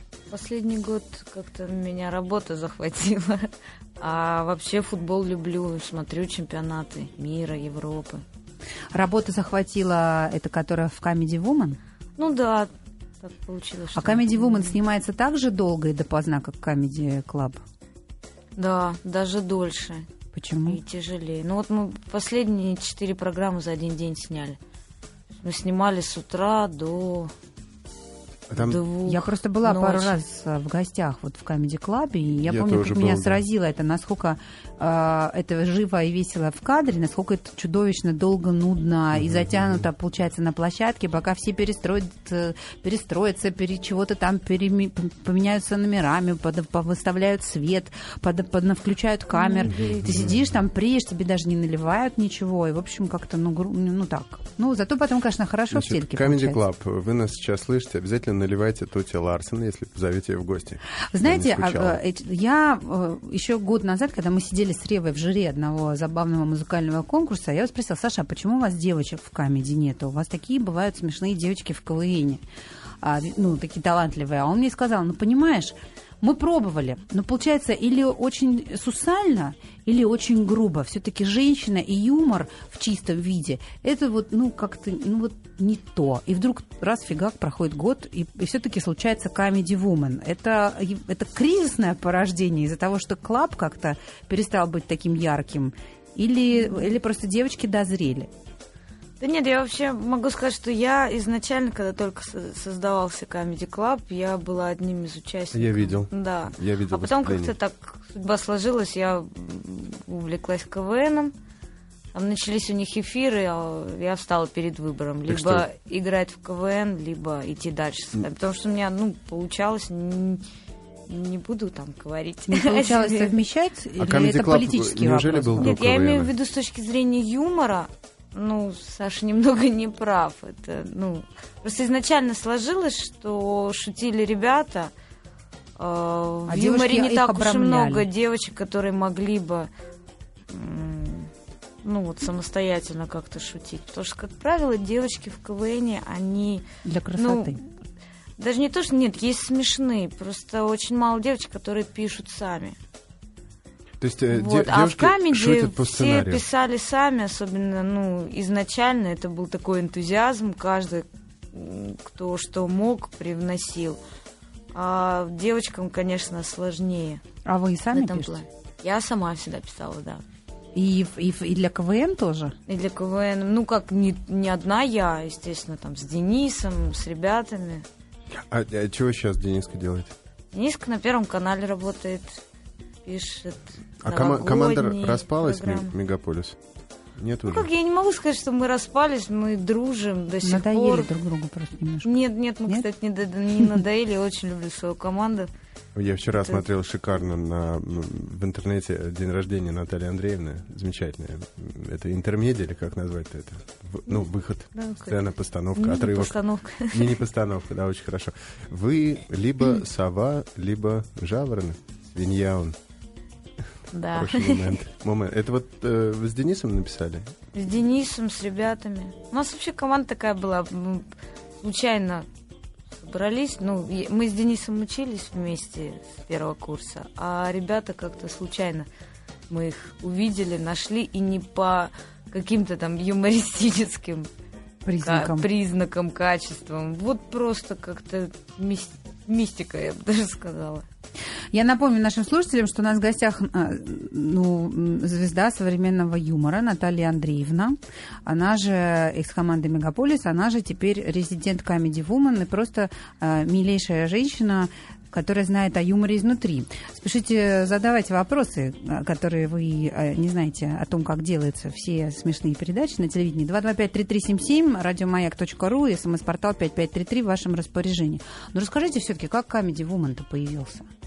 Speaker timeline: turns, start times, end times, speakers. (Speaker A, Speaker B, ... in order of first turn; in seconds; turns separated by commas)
Speaker A: 0.3-8.2, Speaker B: 8.9-11.8, Speaker A: 12.2-14.8, Speaker B: 13.9-17.6, Speaker A: 18.6-20.1, Speaker B: 20.3-20.8, Speaker A: 20.6-24.6, Speaker A: 25.4-27.3, Speaker C: 28.5-28.8, Speaker A: 28.5-30.2, Speaker B: 29.0-56.6, Speaker C: 32.4-33.4, Speaker C: 39.3-39.7, Speaker A: 49.3-50.4, Speaker C: 50.0-50.3, Speaker C: 55.7-62.0, Speaker B: 61.1-72.4, Speaker B: 73.0-98.3, Speaker A: 99.2-111.3, Speaker C: 105.5-107.5, Speaker A: 112.1-120.4, Speaker C: 115.3-115.7, Speaker A: 121.1-123.4, Speaker B: 122.5-125.7, Speaker C: 124.0-126.3, Speaker A: 125.6-134.9, Speaker A: 135.8-139.7, Speaker B: 136.5-138.1, Speaker A: 140.5-141.3, Speaker A: 141.8-146.6, Speaker B: 146.8-147.6, Speaker A: 147.2-147.6, Speaker A: 148.4-152.8, Speaker C: 154.0-156.4, Speaker A: 154.3-164.0, Speaker A: 164.7-167.2, Speaker B: 167.4-168.4, Speaker A: 167.9-170.2, Speaker B: 170.7-172.5, Speaker A: 172.7-177.8, Speaker C: 178.3-180.1, Speaker A: 180.5-182.4, Speaker A: 183.0-185.9, Speaker C: 184.0-186.6, Speaker C: 187.2-187.7, Speaker A: 187.4-191.1, Speaker B: 190.4-192.1, Speaker A: 192.0-195.5, Speaker C: 195.9-206.4, Speaker A: 196.3-196.6, Speaker A: 204.7-205.2, Speaker A: 205.8-207.2, Speaker C: 206.9-212.8, Speaker A: 213.9-214.8, Speaker C: 214.1-217.3, Speaker A: 217.5-221.1, Speaker A: 221.6-222.3, Speaker A: 223.0-228.9, Speaker A: 229.5-234.3, Speaker B: 234.8-235.5, Speaker A: 235.0-240.8, Speaker B: 241.5-270.9